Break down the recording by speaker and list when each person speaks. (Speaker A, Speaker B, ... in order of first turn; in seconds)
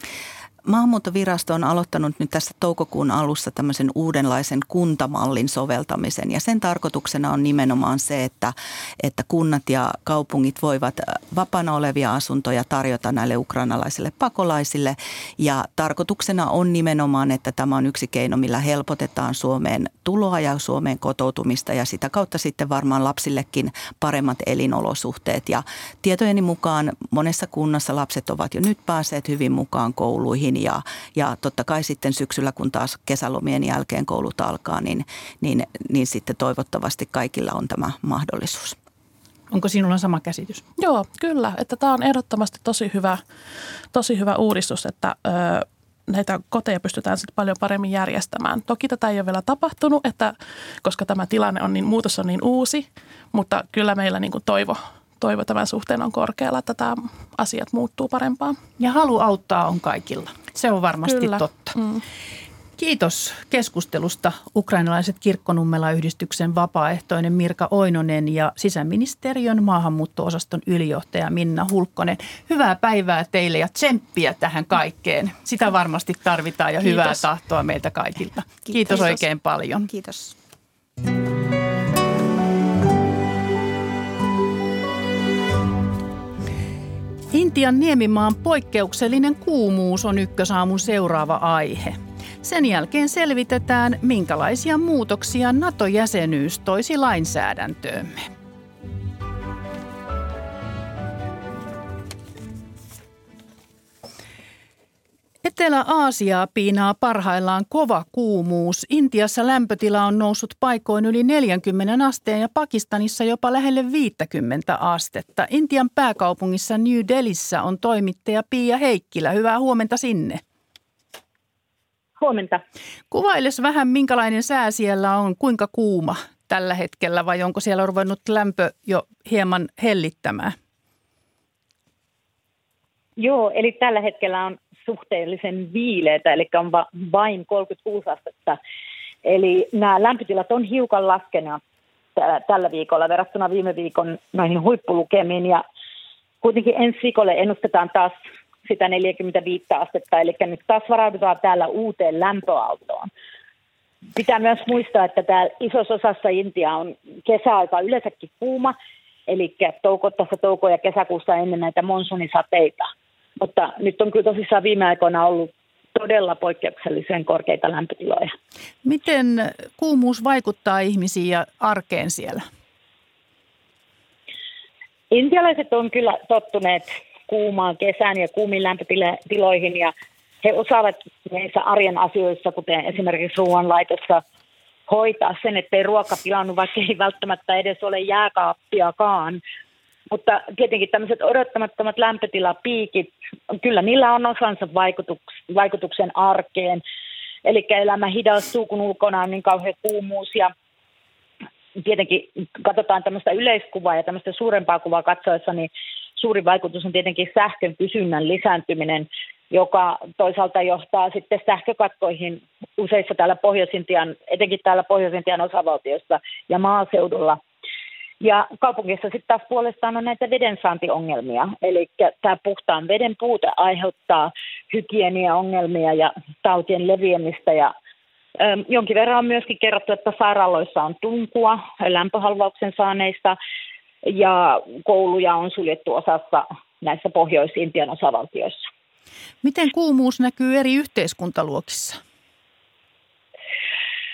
Speaker A: 0.7-38.8, 78.7-79.2, 79.9-80.3
Speaker B: 39.5-40.6, 58.8-61.8, 62.8-79.9, 87.3-98.3, 105.4-120.4, 123.1-130.5, 168.8-172.4, 239.4-242.0
Speaker C: 40.8-43.2, 43.9-58.6, 61.0-62.0
Speaker D: 122.2-122.6, 133.2-138.6, 139.2-141.6, 142.2-145.6, 146.4-153.1, 154.1-158.7, 159.3-168.3, 175.1-184.2, 184.9-189.4, 190.1-196.8, 197.4-200.5, 201.8-217.4, 218.2-227.7, 228.4-233.4, 234.0-238.7